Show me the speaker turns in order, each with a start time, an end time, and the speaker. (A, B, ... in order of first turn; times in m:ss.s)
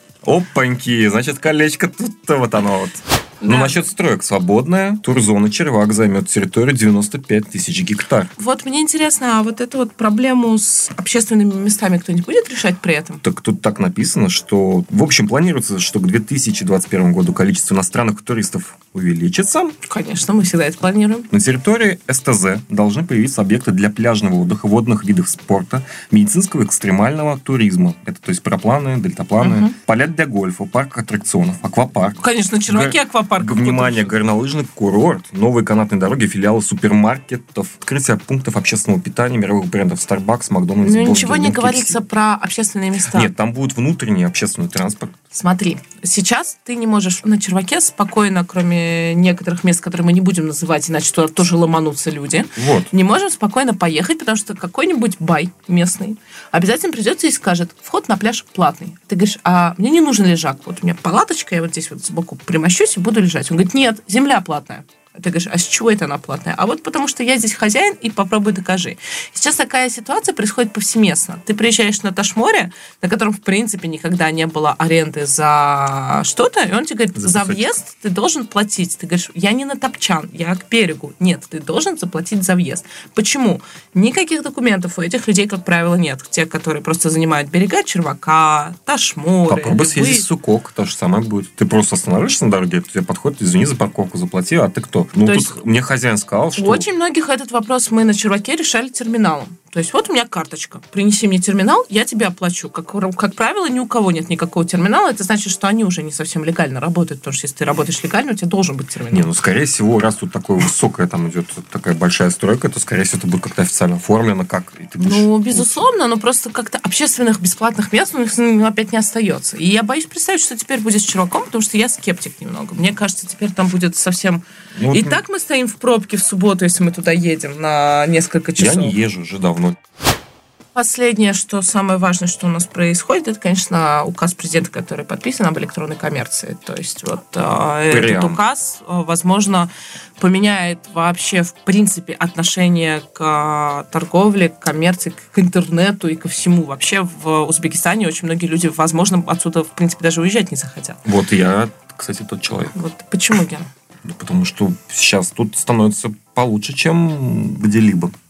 0:00.2-0:08.3 A
0:03.4-0:03.8 B
0:08.4-0:13.2 B
0:13.2-0:19.7 A
0:19.8-0:21.3 B
0:21.3-0:42.0 A
0:29.4-0:29.7 B
0:32.2-0:34.2 B
0:40.8-0:43.3 B
0:43.1-0:45.2 A
0:45.3-1:30.2 B
0:52.6-0:52.9 A
1:17.2-1:17.7 A
1:29.5-1:36.9 A
1:35.2-1:35.6 B
1:36.6-1:49.3 B
1:49.1-1:55.9 A
1:55.0-2:09.0 B
2:04.8-2:05.2 A
2:08.6-2:09.8 A
2:10.7-2:31.0 B
2:17.9-2:18.4 A
2:31.0-2:32.7 A
2:32.7-2:33.7 B
2:34.0-2:38.1 A